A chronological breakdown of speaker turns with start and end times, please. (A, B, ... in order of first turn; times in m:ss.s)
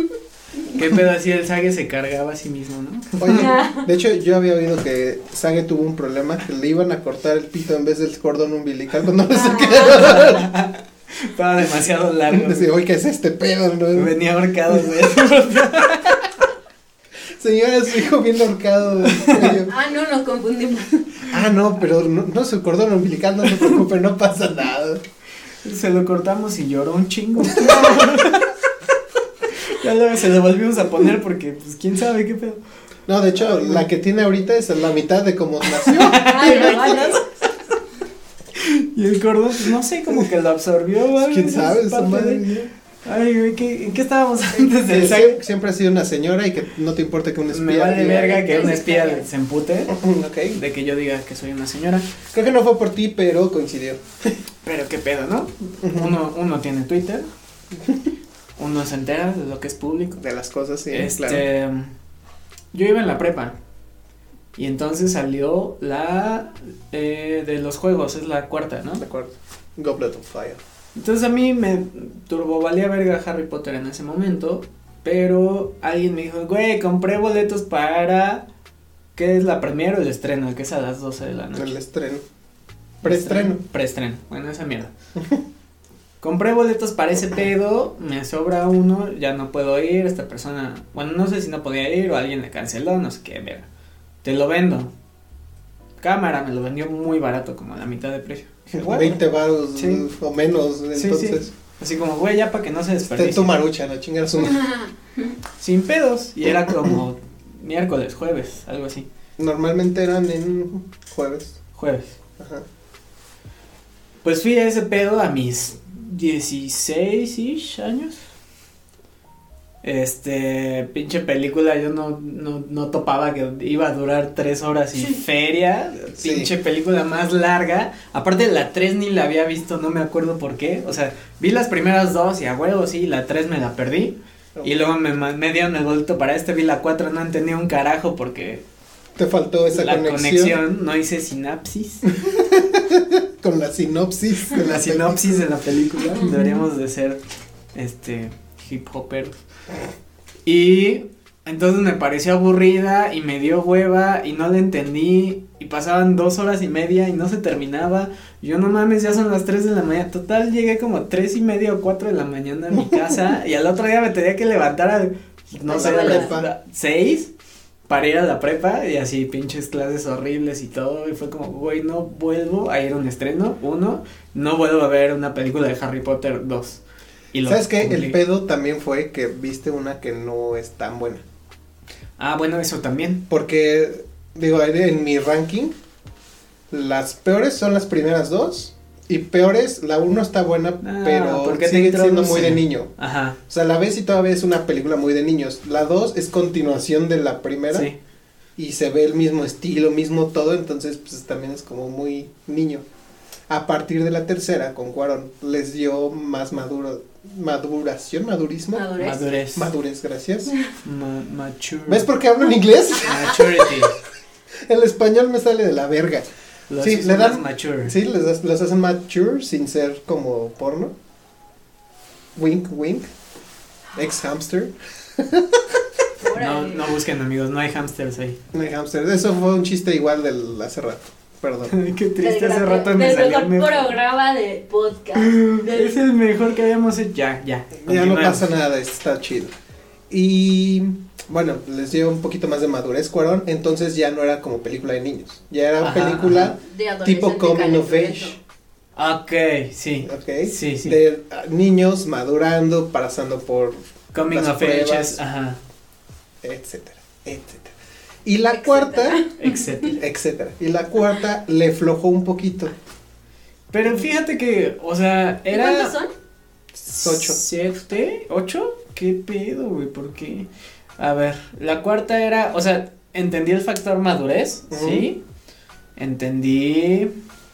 0:00.7-0:03.5 A
0:03.2-0:10.5 B
0:03.3-0:03.9 C
0:09.3-0:10.0 C
0:09.9-0:12.7 A
0:12.3-0:14.1 B
0:14.0-0:16.3 A
0:17.4-0:19.7 B
0:19.0-0:19.6 A
0:19.7-0:20.9 C
0:21.3-0:25.0 B
0:25.6-0:28.6 A
0:29.4-0:32.6 A
0:33.1-0:37.1 B
0:33.4-0:33.9 A
0:35.6-0:37.5 A
0:36.1-0:37.2 C
0:38.5-0:45.4 A
0:41.2-0:42.7 B
0:44.6-0:48.3 B
0:47.5-0:50.0 A
0:47.9-0:49.3 C
0:49.9-0:50.6 B
0:50.5-0:52.1 A
0:52.3-0:54.3 B
0:54.6-0:57.3 A
0:55.8-0:56.2 B
0:58.6-1:00.2 A
1:00.2-1:01.5 B
1:00.9-1:01.9 A
1:02.7-1:03.6 A
1:04.6-1:09.0 A
1:09.0-1:10.6 B
1:11.0-1:18.5 A
1:19.2-1:21.8 A
1:21.6-1:22.2 B
1:23.0-1:23.6 B
1:23.0-1:24.9 A
1:25.2-1:25.4 B
1:26.2-1:33.7 A
1:34.2-1:34.9 A
1:36.0-1:39.2 A
1:38.7-1:41.5 B
1:39.8-1:40.0 A
1:41.0-1:43.6 A
1:43.1-1:44.7 B
1:44.4-1:45.4 C
1:45.6-1:49.1 A
1:49.4-1:51.6 B
1:51.8-1:52.2 A
1:52.4-1:52.7 B
1:54.2-1:58.2 A
1:59.8-2:18.6 A
2:06.2-2:06.5 B
2:14.6-2:14.9 B
2:19.2-2:20.6 B
2:19.7-2:22.0 A
2:22.1-2:25.4 B
2:24.5-2:27.2 A
2:26.2-2:26.5 C
2:27.7-2:29.4 A
2:30.4-2:47.3 A
2:45.7-2:46.5 B
2:45.7-2:46.4 C
2:47.9-2:56.8 A
2:57.3-2:58.2 A
2:57.4-3:01.2 B
3:02.2-3:03.2 A
3:03.3-3:05.8 B
3:06.7-3:12.9 B
3:10.8-3:13.4 A
3:13.5-3:17.9 B
3:17.7-3:18.0 A
3:18.6-3:22.8 B
3:23.5-3:28.9 B
3:28.7-3:29.3 C
3:29.0-3:29.7 A
3:29.5-3:30.5 B
3:30.8-3:32.1 A
3:31.9-3:33.6 B
3:33.0-3:34.0 A
3:34.7-3:36.3 B
3:36.7-3:38.0 A
3:36.8-3:40.9 B
3:42.4-3:43.1 B
3:43.9-3:45.6 B
3:46.2-3:46.9 C
3:46.3-3:48.4 A
3:48.5-3:51.8 B
3:51.7-3:54.0 A
3:52.2-3:56.0 C
3:55.2-3:58.5 A
3:57.8-3:59.5 B
4:00.1-4:08.4 B
4:05.8-4:06.6 A
4:06.6-4:08.4 C
4:09.0-4:11.0 A
4:10.0-4:15.2 B
4:14.1-4:15.6 A
4:16.4-4:17.7 B
4:18.2-4:19.2 B
4:18.5-4:19.9 C
4:19.4-4:20.0 A
4:19.9-4:22.7 B
4:23.7-4:25.9 A
4:25.5-4:26.1 C
4:26.8-4:27.4 B
4:26.9-4:35.2 A
4:34.7-4:35.1 B
4:36.0-4:37.1 A